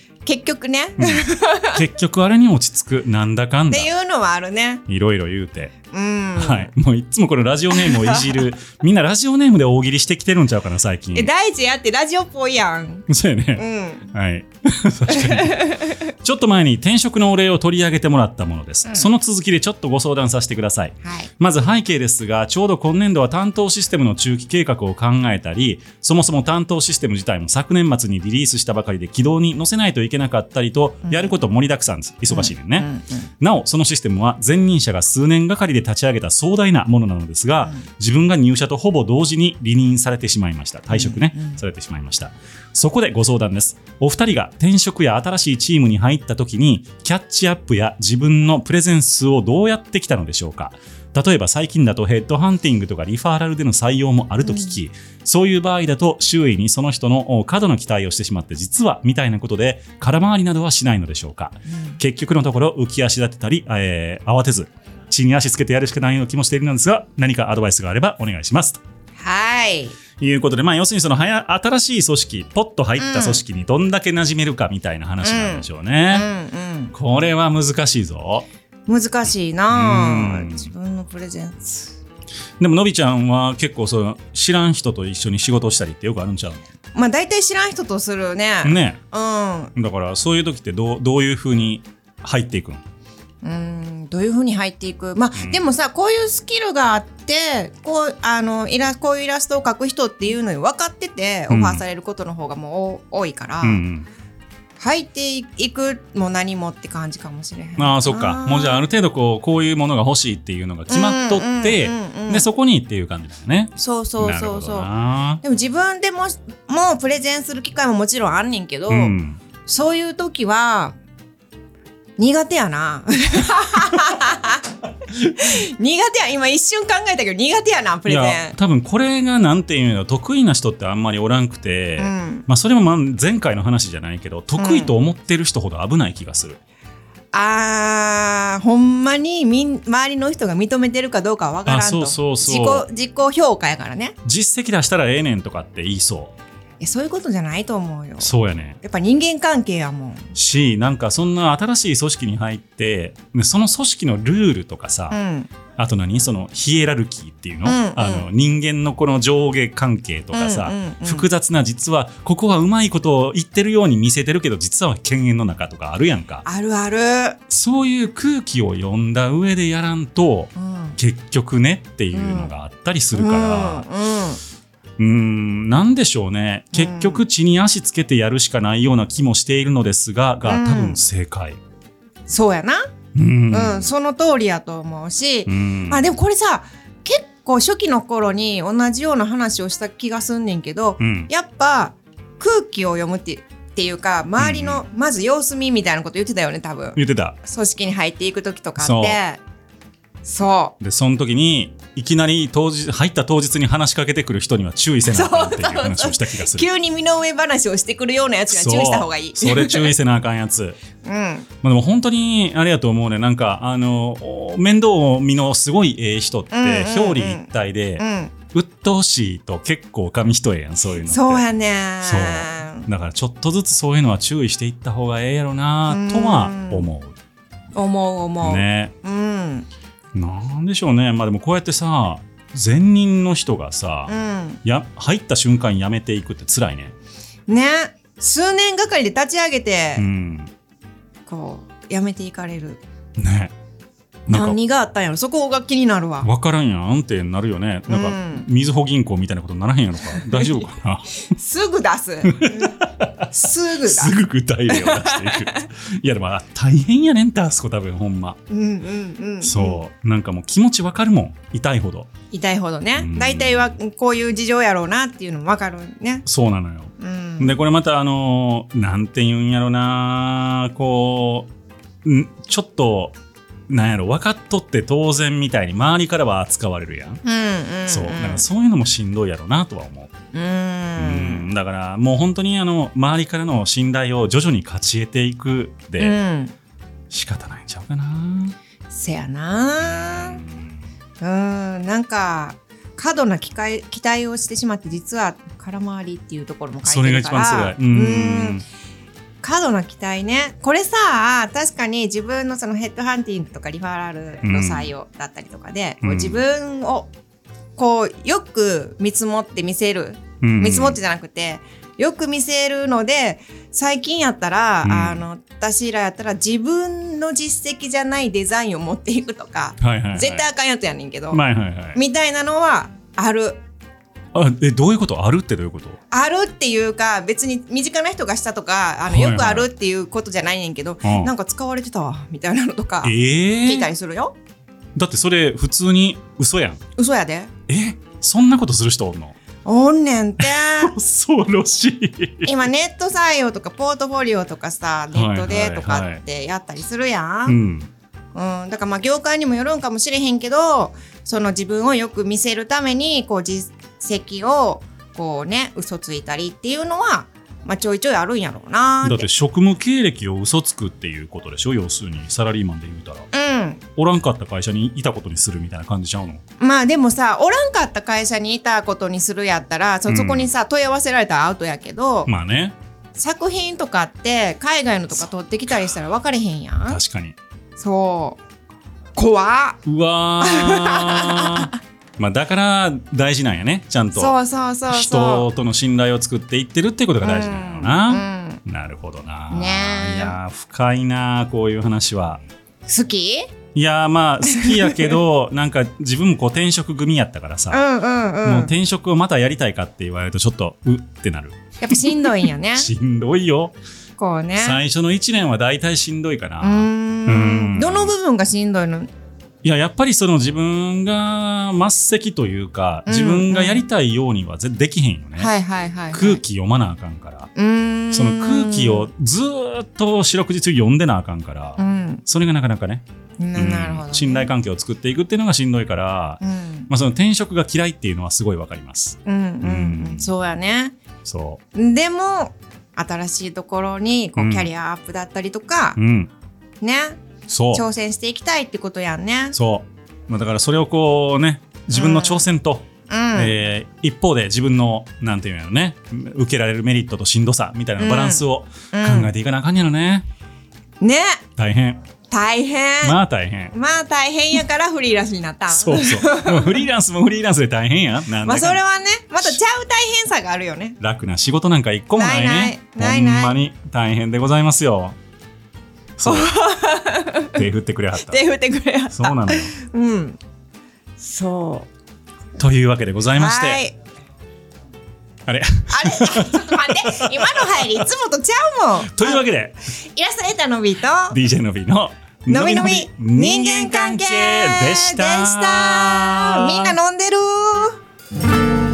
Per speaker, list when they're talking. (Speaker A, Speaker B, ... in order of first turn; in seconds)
Speaker A: 0.2-1.8, 3.7-4.8, 5.9-6.7, 7.7-8.4, 11.2-14.1, 15.1-16.1, 21.0-21.3, 31.1-31.3, 32.3-33.3, 40.9-41.6, 54.5-54.7, 61.7-62.0, 69.2-70.0, 73.0-73.4, 75.2-76.9, 78.9-82.0, 87.0-89.7, 93.4-103.8, 104.8-108.9, 110.9-112.5, 113.8-114.9, 115.4-119.1, 119.7-121.0, 122.2-128.6, 132.0-132.5, 134.6-134.9, 137.3-144.2, 146.8-148.3, 148.8-150.3, 155.1-155.5, 157.7-158.3, 160.3-161.3, 166.4-167.4, 170.6-171.0, 172.1-172.5, 173.1-174.4, 176.7-177.2, 180.5-181.0, 182.3-182.9, 183.5-199.4, 200.2-200.7, 205.1-209.9, 211.0-211.5, 216.5-218.3, 221.1-222.9, 225.9-226.9, 227.8-229.7, 234.1-234.6, 237.5-240.0, 241.3-242.8, 244.3-246.3, 247.9-248.5, 250.2-250.6, 251.3-252.8, 253.3-254.2, 254.7-255.7, 258.5-259.8, 262.3-266.3, 267.0-267.6, 277.2-278.5, 280.3-281.5, 286.0-286.5, 288.9-290.4, 291.2-298.6, 299.4-307.1, 307.8-321.4, 321.9-323.6, 326.1-334.4, 337.0-337.5, 339.6-340.9, 342.4-347.6, 348.4-359.3, 363.3-363.8, 366.6-372.3, 373.1-377.0, 377.8-378.4, 379.1-379.8, 380.4-381.7, 384.1-385.5, 387.2-388.6, 389.5-390.4, 392.9-393.5, 394.5-395.2, 397.7-398.7, 401.8-402.9, 404.2-404.8, 406.6-409.1, 413.1-413.9, 415.4-416.4, 417.6-419.1, 421.8-422.2, 423.4-424.5, 426.4-426.9, 429.3-431.0, 431.8-436.0, 436.8-437.2, 437.7-439.6, 441.9-442.4, 443.1-443.6, 448.0-449.3, 451.0-451.4, 452.3-453.2, 453.7-456.8, 458.4-461.0, 462.2-463.6, 466.2-467.6, 468.2-470.4, 471.2-471.9, 473.4-473.9, 475.9-479.4, 480.0-481.4, 482.5-488.0
Speaker B: 1.0-3.9, 4.9-5.7, 6.4-11.3, 13.1-32.9, 33.4-68.8, 70.2-76.3, 76.9-78.5, 79.7-80.7, 82.6-86.7, 88.6-89.0, 89.8-92.8, 95.4-95.6, 101.5-101.8, 103.6-104.1, 107.8-115.4, 118.9-119.4, 128.1-136.6, 141.7-142.9, 144.2-146.3, 148.2-148.8, 150.3-155.2, 155.8-166.4, 167.5-173.9, 175.0-181.6, 183.2-183.9, 185.5-186.1, 191.0-191.3, 194.4-194.8, 197.0-197.4, 198.8-199.2, 200.8-206.7, 208.5-210.8, 211.6-221.4, 222.0-227.2, 228.4-228.9, 230.1-234.1, 234.7-236.9, 240.0-240.5, 243.2-243.5, 244.3-244.6, 246.2-251.2, 252.2-258.4, 259.4-262.1, 263.0-263.8, 266.3-271.5, 272.0-273.2, 273.7-277.2, 277.9-280.1, 281.0-286.2, 287.1-288.6, 289.8-290.8, 296.8-298.6, 304.4-304.9, 306.0-306.4, 310.4-311.0, 314.8-315.2, 319.8-320.5, 321.3-322.0, 324.3-326.0, 329.1-329.7, 331.0-331.3, 333.0-333.9, 335.0-336.8, 337.7-339.4, 340.4-342.5, 345.1-346.2, 347.5-347.9, 359.0-363.3, 364.0-366.4, 370.1-370.5, 372.3-372.8, 376.9-377.4, 379.9-384.3, 384.9-392.4, 393.8-397.8, 398.4-403.8, 404.6-408.1, 409.6-415.5, 416.1-417.5, 418.1-423.0, 423.6-430.3, 431.2-431.6, 434.4-434.7, 436.0-436.3, 437.5-437.8, 439.6-450.3, 451.6-452.0, 453.0-453.8, 455.7-458.8, 461.0-465.2, 466.2-466.5, 467.5-468.4, 469.1-469.7, 472.6-473.8, 475.5-478.1, 479.0-479.8, 481.3-486.9